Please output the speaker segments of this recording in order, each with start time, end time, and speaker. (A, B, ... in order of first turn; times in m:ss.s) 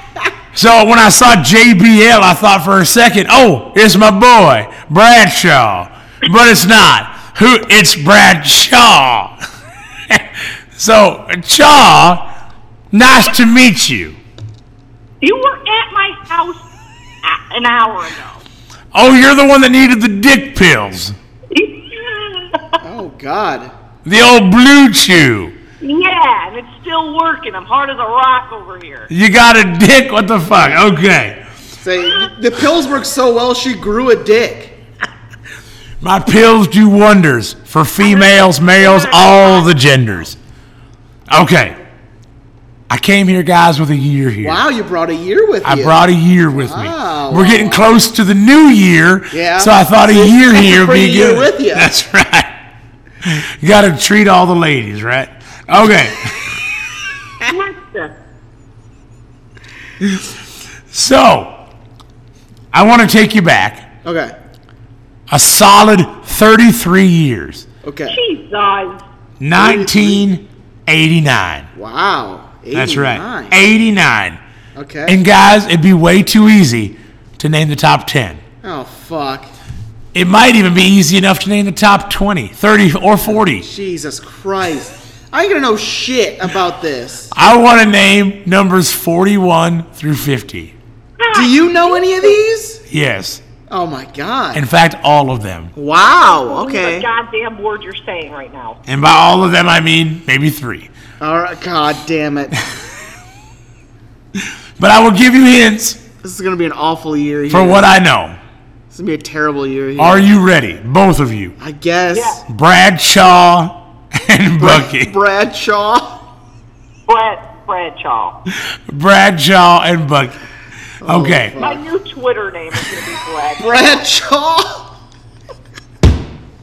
0:00.5-0:09.4 A
0:10.1-0:12.3 A
0:12.9-0:14.2 A
0:15.2-0:16.7 B
0:17.2-0:18.4 B
0:18.9-0:21.2 A
0:21.5-0:22.8 B
0:22.8-0:23.7 C
0:24.0-0:25.6 A
0:25.8-0:29.1 B
0:29.1-0:31.4 A
0:30.5-0:30.8 C
0:31.8-0:34.8 C
0:36.0-0:40.4 A
0:38.0-0:39.8 B
0:41.3-0:41.8 A
0:42.9-0:44.6 A
0:44.4-0:47.9 C
0:45.6-0:52.6 A
0:49.3-0:51.9 C
0:53.2-0:56.9 A
0:57.4-0:58.1 B
1:00.9-1:01.6 A
1:02.7-1:03.9 A
1:04.0-1:04.4 C
1:05.3-1:07.7 A
1:07.8-1:08.2 C
1:08.1-1:09.0 B
1:09.4-1:11.7 A
1:09.6-1:10.2 C
1:11.8-1:13.6 C
1:12.7-1:14.4 A
1:14.8-1:15.2 C
1:15.1-1:18.4 A
1:18.6-1:19.5 C
1:20.1-1:23.7 A
1:23.3-1:27.3 C
1:27.3-1:30.8 A
1:31.2-1:32.4 B
1:31.3-1:32.8 C
1:32.9-1:33.4 A
1:33.7-1:34.6 C
1:34.5-1:35.7 A
1:35.8-1:37.1 C
1:36.1-1:38.8 B
1:38.9-1:40.9 A
1:41.2-1:42.6 C
1:44.8-1:46.0 A
1:46.2-1:47.9 C
1:47.5-1:48.4 A
1:48.9-1:50.3 C
1:50.0-1:51.6 A
1:51.6-1:52.4 C
1:52.1-1:52.4 B
1:52.5-1:55.1 A
1:54.6-1:56.2 C
1:57.1-1:58.4 B
1:58.9-2:00.4 A
2:01.0-2:01.8 C
2:01.0-2:01.6 A
2:01.6-2:03.8 B
2:03.6-2:04.9 C